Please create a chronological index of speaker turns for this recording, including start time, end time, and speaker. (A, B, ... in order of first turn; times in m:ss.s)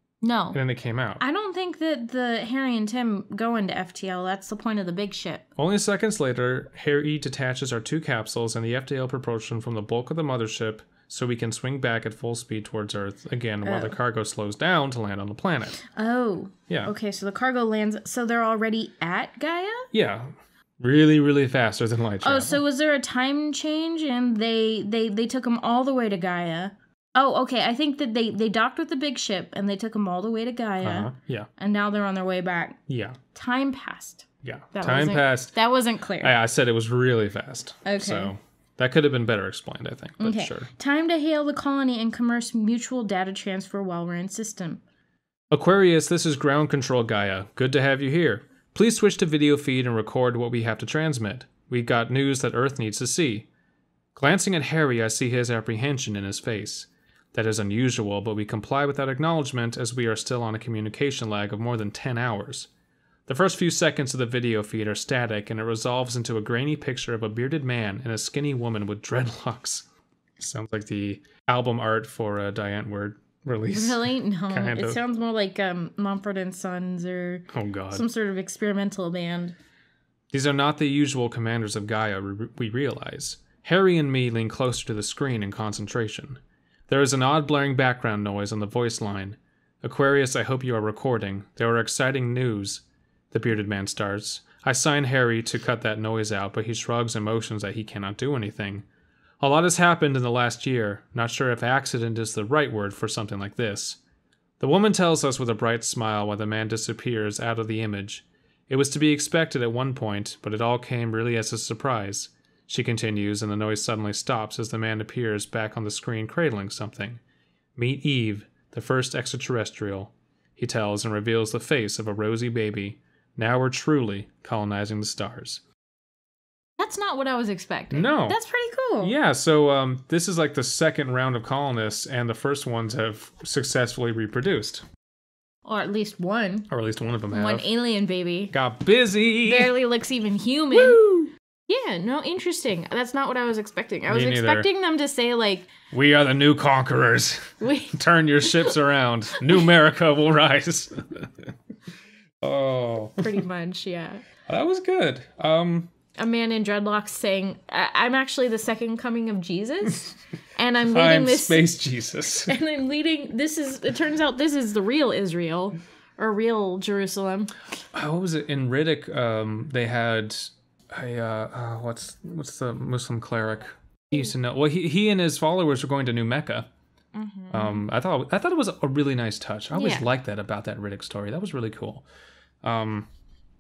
0:00.2-0:00.6 A
0:00.5-0:01.2 B
0:01.2-0:05.4 A
0:05.6-0:15.8 B
0:13.6-0:13.9 A
0:15.8-0:19.9 A
0:19.9-0:22.6 B
0:22.2-0:36.3 A
0:30.8-0:31.5 B
0:32.9-0:33.2 B
0:34.4-0:35.6 B
0:36.2-0:40.7 B
0:37.8-0:38.4 A
0:40.2-0:44.8 A
0:45.5-0:53.5 B
0:54.1-1:02.7 B
1:03.3-1:09.9 B
1:10.4-1:15.0 B
1:13.7-1:19.6 A
1:17.5-1:18.1 B
1:20.3-1:38.8 B
1:39.4-1:44.0 B
1:44.6-1:57.2 B
1:57.8-2:05.6 B
2:06.8-2:09.1 A
2:07.9-2:08.4 B
2:09.0-2:14.8 B
2:15.6-2:16.7 A
2:16.7-2:17.7 B
2:17.3-2:18.5 A
2:18.5-2:19.7 B
2:19.4-2:21.0 A
2:20.7-2:21.3 B
2:21.7-2:25.7 A
2:24.1-2:24.7 B
2:25.9-2:31.5 B
2:27.6-2:28.0 A
2:32.4-2:33.4 B
2:33.2-2:34.2 A
2:34.5-2:35.9 B
2:36.2-2:41.6 A
2:40.9-2:42.6 B
2:42.5-2:47.5 A
2:47.9-2:56.7 B
2:57.1-2:57.8 A
2:57.5-3:02.0 B
2:59.7-3:00.0 A
3:02.6-3:03.1 B